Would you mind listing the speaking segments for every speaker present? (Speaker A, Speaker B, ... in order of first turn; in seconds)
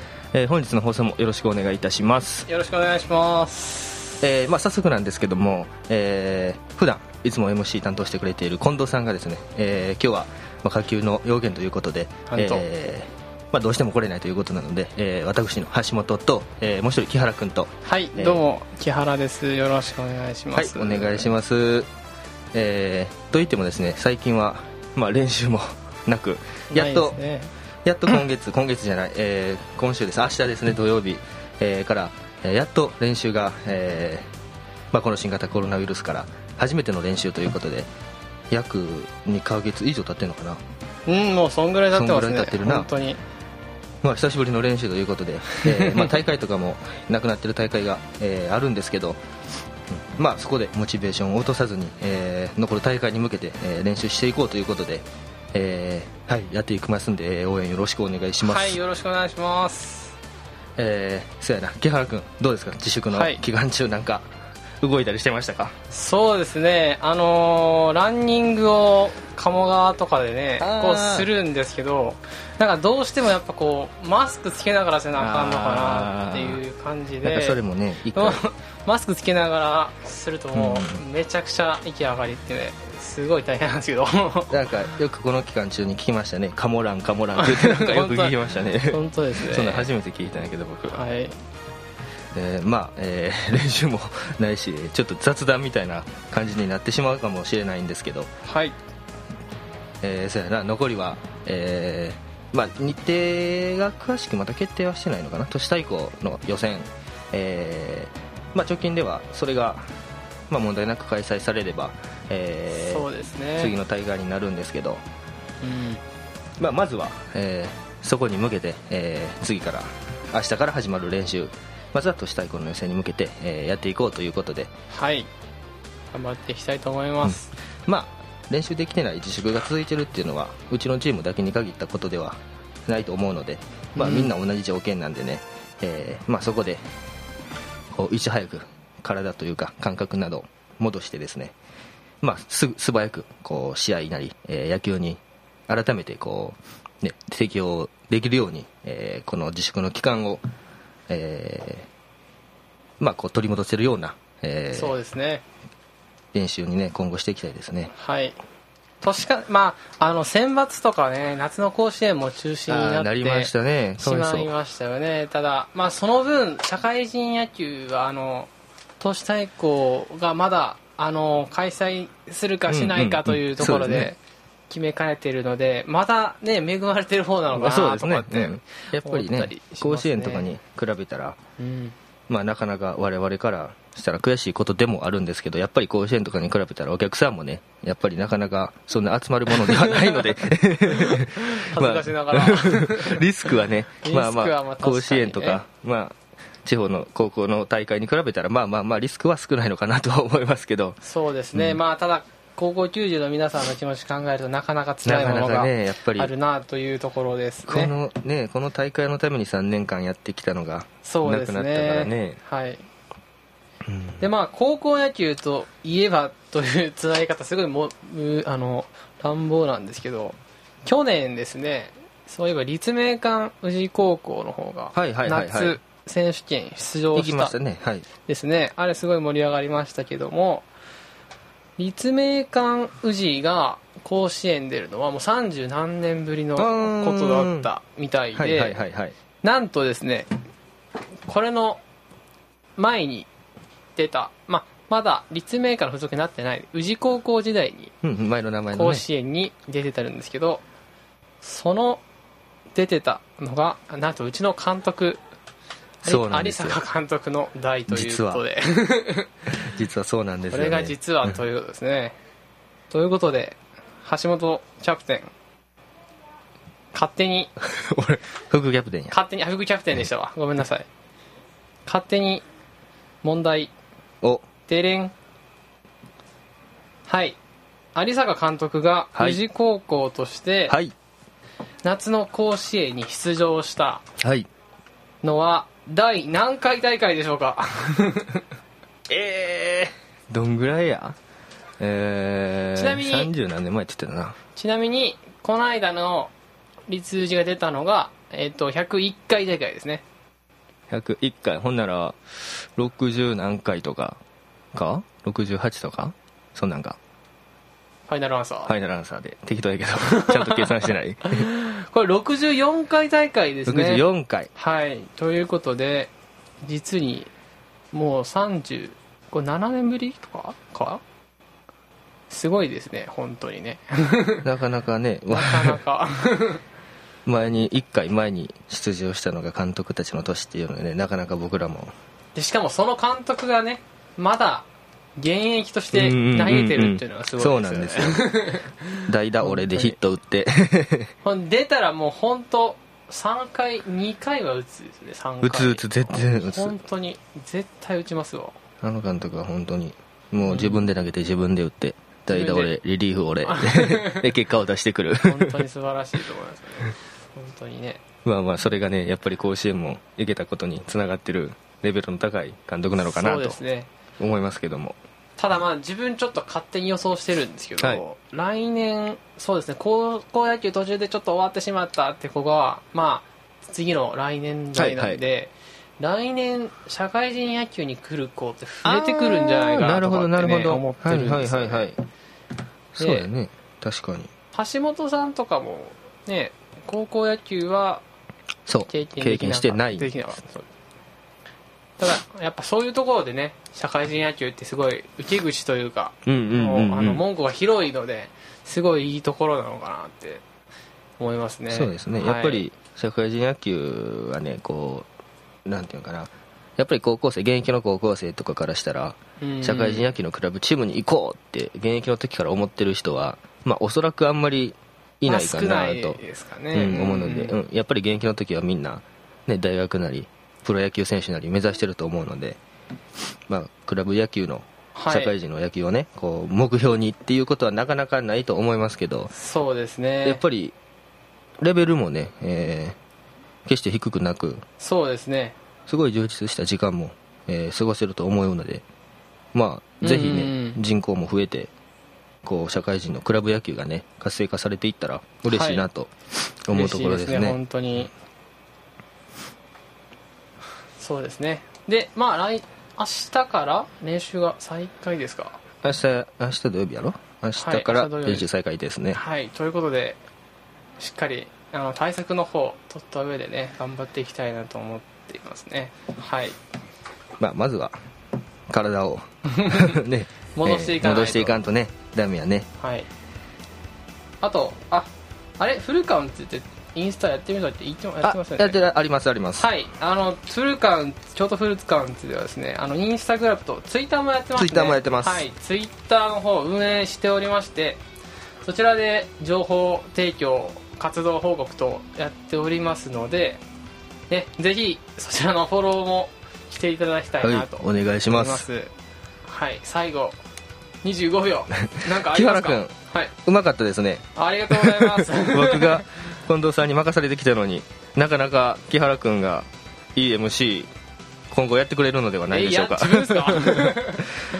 Speaker A: 0.3-2.5, 4.2-18.4, 20.5-21.9, 22.5-27.2, 27.8-34.3, 34.9-37.9, 38.5-40.6, 41.9-42.9, 44.0-49.2, 49.9-58.8, 60.8-64.3, 64.8-65.7, 70.6-71.3, 75.2-76.6, 77.2-78.4, 80.5-81.0, 84.5-91.0, 92.3-98.3, 100.0-109.8, 110.5-115.0, 116.6-124.7, 127.2-136.8, 137.9-141.6, 142.2-150.4, 151.1-151.9, 153.0-155.0, 156.3-157.9, 162.7-164.5, 172.7-174.1, 177.5-181.4, 182.3-201.0, 201.5-201.8, 205.1-206.3, 207.7-212.4, 213.8-214.2, 224.9-225.8, 227.1-228.1, 236.6-237.7, 238.3-239.2, 248.0-249.0, 256.0-256.8, 257.9-258.4, 259.5-261.4, 267.6-269.2, 279.1-279.4, 284.2-284.5, 289.1-291.2, 291.8-294.4, 300.9-304.2, 304.7-307.0, 308.7-311.4, 313.7-314.5, 324.4-325.8, 327.2-331.9, 335.9-338.3, 339.1-341.1, 345.4-346.8, 348.8-355.7, 358.2-363.6, 364.2-365.0, 374.8-375.2, 378.8-382.0, 382.9-384.3, 388.7-390.1, 396.2-397.2, 401.7-405.1, 405.7-416.2, 416.7-422.6, 423.5-429.3, 430.2-430.7, 431.6-433.0, 433.7-434.6, 435.9-438.9, 439.5-441.7, 442.4-446.1, 446.7-447.6, 455.8-459.2, 467.4-467.9, 468.7-472.7, 478.2-479.7, 484.6-485.4, 497.4-498.7, 502.1-502.9, 503.4-510.9, 511.5-514.1
Speaker B: 2.5-4.2, 12.3-12.7, 17.8-21.3, 26.7-27.5, 41.1-43.2, 45.6-46.2, 58.4-60.2, 63.1-63.4, 65.9-77.6, 78.1-84.5, 87.4-89.9, 90.9-91.4, 98.5-98.8, 112.7-113.7, 115.6-116.0, 124.9-125.3, 126.1-127.5, 134.0-134.3, 154.7-155.4, 157.9-158.3, 159.0-174.2, 174.7-180.5, 181.6-181.9, 189.6-190.2, 190.9-193.2, 194.0-195.6, 201.0-207.9, 211.0-212.8, 214.2-227.6, 228.3-230.7, 231.8-238.8, 239.4-240.3, 241.3-241.8, 242.8-243.3, 243.9-247.9, 248.7-250.6, 251.4-252.0, 252.7-255.2, 256.1-259.3, 260.5-262.2, 262.9-265.3, 266.9-267.5, 269.1-270.9, 271.9-272.4, 273.2-273.7, 274.7-275.1, 277.1-277.4, 277.9-280.8, 281.8-284.0, 285.2-288.4, 292.8-293.3, 294.6-296.3, 296.9-300.0, 308.1-308.7, 310.1-314.0, 314.6-316.1, 316.6-317.3, 317.9-321.0, 322.3-324.4, 325.3-326.6, 332.4-334.7, 335.2-339.9, 341.2-348.6, 350.4-350.8, 352.3-352.7, 353.4-354.3, 355.2-358.0, 363.0-363.9, 365.4-381.9, 383.0-383.3, 384.5-388.0, 388.9-390.7, 392.0-400.4, 401.2-402.7, 409.4-410.1, 415.2-417.6, 424.9-425.3, 429.3-430.4, 434.8-435.6, 440.0-440.8, 445.4-445.9, 446.7-448.1, 451.0-455.6, 457.6-458.5, 459.1-460.2, 461.0-466.6, 469.6-469.9, 470.6-471.6, 472.8-473.1, 474.4-478.8, 479.6-488.0, 488.6-493.6, 494.3-498.9, 499.5-500.4, 501.0-503.3, 504.3-506.0, 512.5-514.3